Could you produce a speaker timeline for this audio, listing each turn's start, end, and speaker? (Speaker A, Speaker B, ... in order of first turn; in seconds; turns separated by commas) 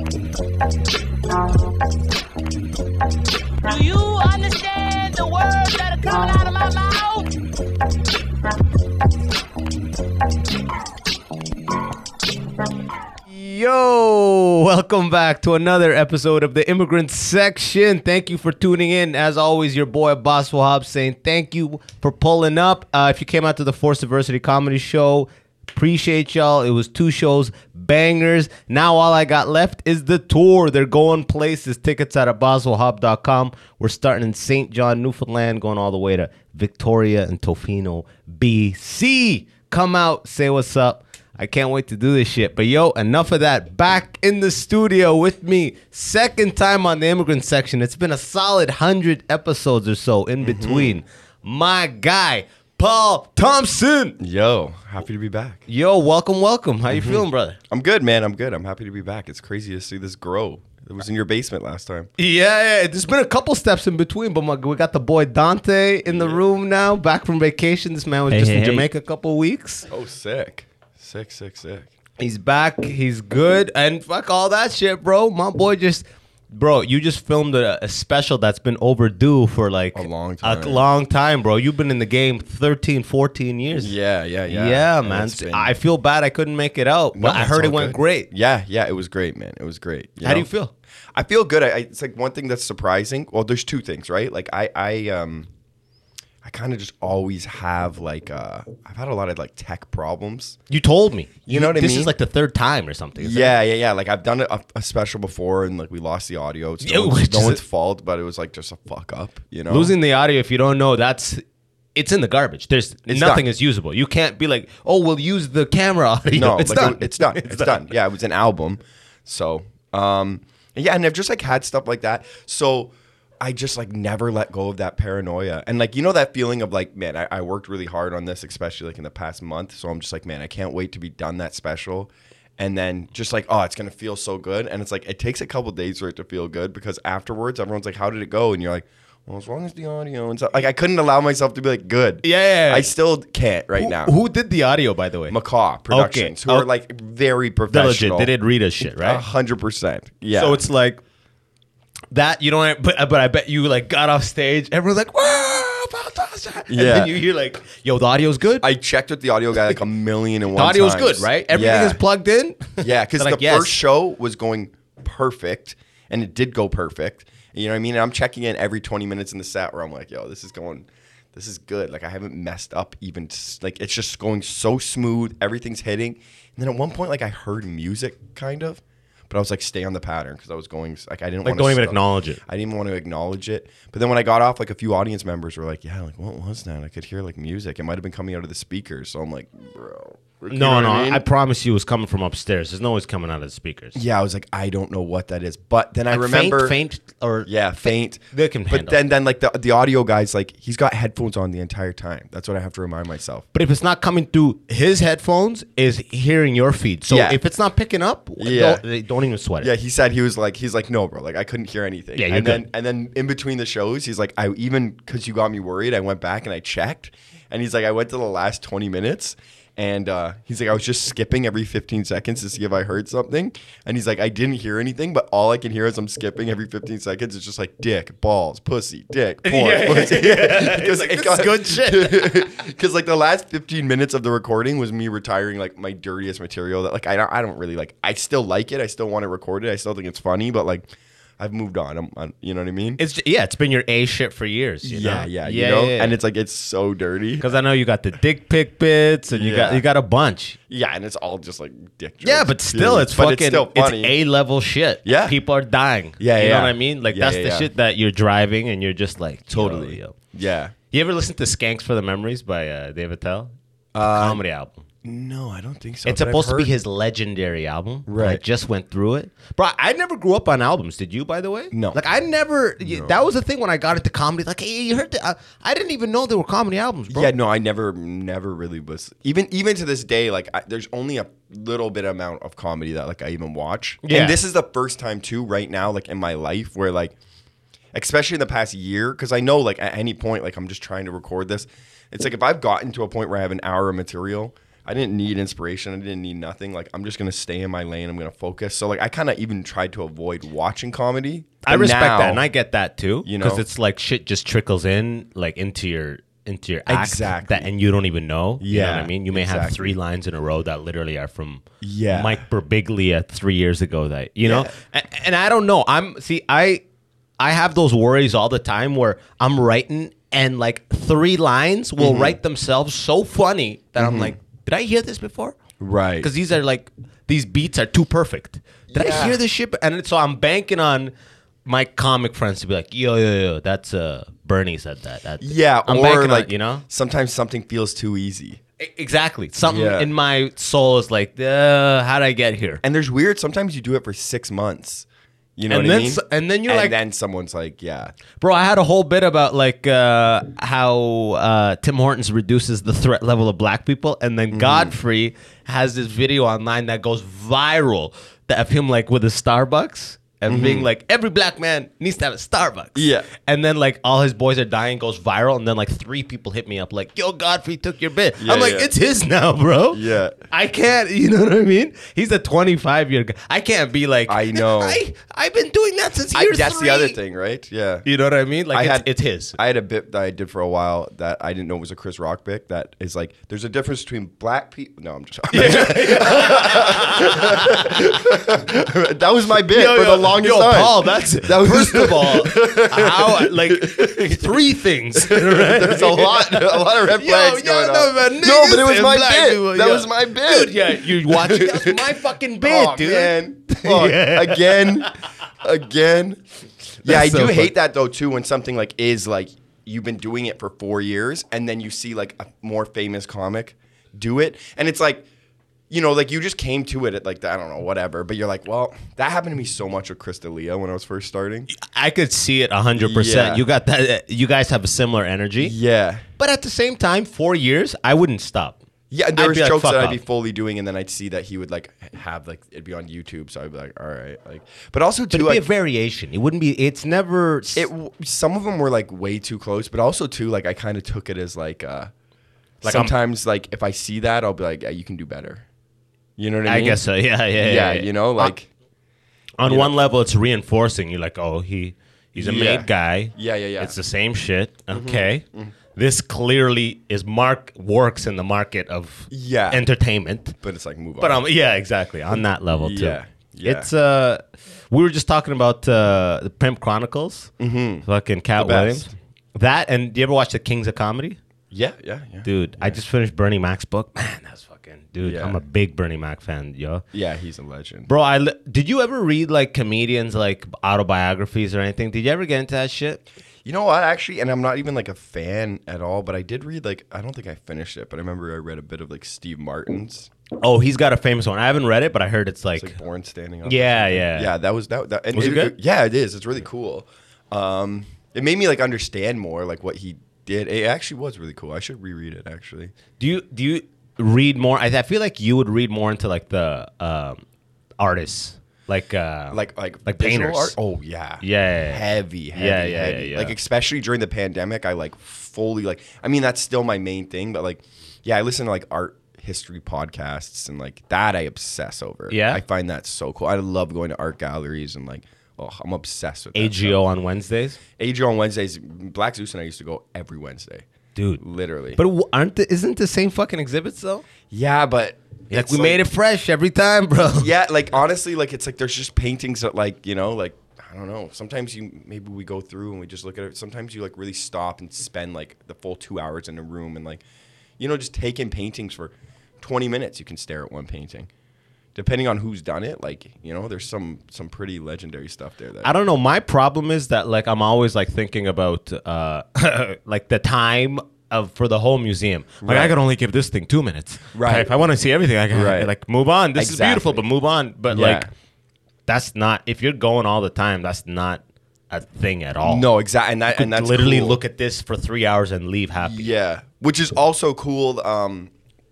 Speaker A: 3.7-7.3, Speaker B: 13.3-54.2, Speaker C: 50.4-51.0, Speaker C: 54.2-55.6, Speaker B: 55.7-57.6, Speaker C: 56.9-62.1, Speaker B: 62.2-69.9, Speaker C: 66.0-66.4, Speaker C: 68.3-68.9, Speaker C: 69.9-71.9, Speaker B: 72.2-83.9, Speaker C: 79.9-80.8, Speaker C: 83.8-85.8, Speaker B: 84.5-88.3, Speaker C: 87.1-90.5, Speaker B: 90.2-90.7, Speaker C: 91.1-95.5, Speaker C: 96.4-100.6, Speaker B: 100.7-103.5, Speaker C: 101.5-102.1, Speaker C: 103.2-109.9, Speaker B: 106.8-107.6, Speaker B: 109.7-111.4, Speaker B: 111.9-117.9, Speaker C: 113.1-113.4, Speaker C: 116.3-144.2, Speaker B: 142.2-142.9, Speaker B: 143.8-145.4, Speaker C: 145.3-150.6, Speaker B: 145.9-146.7, Speaker B: 147.7-149.2, Speaker B: 150.3-151.0, Speaker B: 152.1-158.7, Speaker C: 156.7-157.1, Speaker C: 158.6-162.0, Speaker B: 160.5-163.8, Speaker C: 162.8-191.2, Speaker B: 181.4-182.4, Speaker B: 190.5-194.0, Speaker C: 193.9-196.8, Speaker B: 196.1-199.0, Speaker C: 197.4-203.4, Speaker B: 203.5-209.7, Speaker C: 207.1-207.4, Speaker C: 208.4-208.8, Speaker C: 209.6-240.9, Speaker B: 212.2-212.6, Speaker B: 229.4-232.6, Speaker C: 241.4-243.0, Speaker B: 243.0-246.2, Speaker C: 244.8-247.6, Speaker B: 247.4-250.6, Speaker C: 249.3-249.8, Speaker C: 250.7-254.2, Speaker B: 252.2-260.1, Speaker C: 255.0-255.4, Speaker C: 256.2-257.7, Speaker C: 259.5-260.7, Speaker B: 260.9-264.8, Speaker C: 263.9-264.4, Speaker C: 265.0-266.7, Speaker B: 266.0-277.3, Speaker C: 268.1-268.4, Speaker C: 271.7-272.0, Speaker C: 272.8-273.2, Speaker C: 277.1-287.1, Speaker B: 284.0-284.4, Speaker C: 287.9-302.5, Speaker B: 301.6-316.8, Speaker C: 303.2-303.6, Speaker C: 306.9-307.7, Speaker C: 308.6-309.9, Speaker C: 311.8-312.4, Speaker C: 314.4-314.7, Speaker B: 317.4-325.6, Speaker C: 322.0-322.4, Speaker C: 324.0-324.3, Speaker C: 325.8-326.3, Speaker B: 326.2-331.1, Speaker C: 328.9-329.4, Speaker B: 331.6-336.8, Speaker C: 335.4-338.6, Speaker B: 338.8-342.8, Speaker C: 339.6-340.1, Speaker C: 342.8-348.1, Speaker B: 345.7-346.9, Speaker B: 348.4-377.2, Speaker C: 354.5-355.0, Speaker C: 360.5-360.9, Speaker C: 362.9-363.3, Speaker C: 368.4-368.9, Speaker C: 369.9-370.4, Speaker C: 374.3-375.0, Speaker C: 376.3-378.1, Speaker B: 378.0-379.6, Speaker C: 378.7-394.6, Speaker B: 385.5-388.4, Speaker B: 389.7-405.2, Speaker C: 395.1-406.4, Speaker B: 407.0-407.7, Speaker C: 407.0-415.3, Speaker C: 415.9-421.7, Speaker B: 421.7-425.7, Speaker C: 423.0-423.6, Speaker C: 425.6-426.2, Speaker B: 426.4-428.8, Speaker C: 429.1-435.6, Speaker B: 429.3-430.2, Speaker B: 435.3-437.9, Speaker C: 437.7-442.1, Speaker B: 442.8-443.1, Speaker C: 442.8-445.6, Speaker C: 446.4-447.0, Speaker B: 446.6-448.5, Speaker C: 447.6-448.7, Speaker B: 449.6-455.4, Speaker C: 449.6-450.0, Speaker C: 452.4-454.0, Speaker C: 454.9-455.7, Speaker B: 455.9-460.6, Speaker C: 459.3-459.8, Speaker C: 460.6-461.4, Speaker B: 461.2-467.5, Speaker C: 462.7-463.9, Speaker C: 467.6-469.1, Speaker B: 468.0-471.4, Speaker C: 471.7-472.9, Speaker B: 472.4-477.0, Speaker C: 475.2-475.6, Speaker C: 477.1-478.1, Speaker B: 478.1-483.2, Speaker C: 483.6-490.3, Speaker B: 490.6-492.9, Speaker C: 492.8-502.9, Speaker B: 493.6-494.5, Speaker B: 495.3-495.7, Speaker B: 503.2-507.4, Speaker B: 508.0-510.8, Speaker C: 509.5-527.0, Speaker B: 511.4-513.5, Speaker B: 522.3-522.6, Speaker B: 526.5-527.8, Speaker C: 528.0-530.8, Speaker B: 531.1-531.4, Speaker C: 531.4-532.0, Speaker B: 532.0-534.2, Speaker C: 534.5-536.0, Speaker B: 535.5-537.5, Speaker C: 537.3-547.2, Speaker C: 547.8-551.3, Speaker C: 551.9-555.9, Speaker B: 555.8-568.3, Speaker C: 562.6-562.9, Speaker C: 564.3-564.8, Speaker C: 565.5-565.9, Speaker C: 566.5-567.2, Speaker C: 567.9-568.3, Speaker B: 569.1-572.9, Speaker C: 572.6-574.4, Speaker B: 573.5-576.3, Speaker C: 576.0-578.5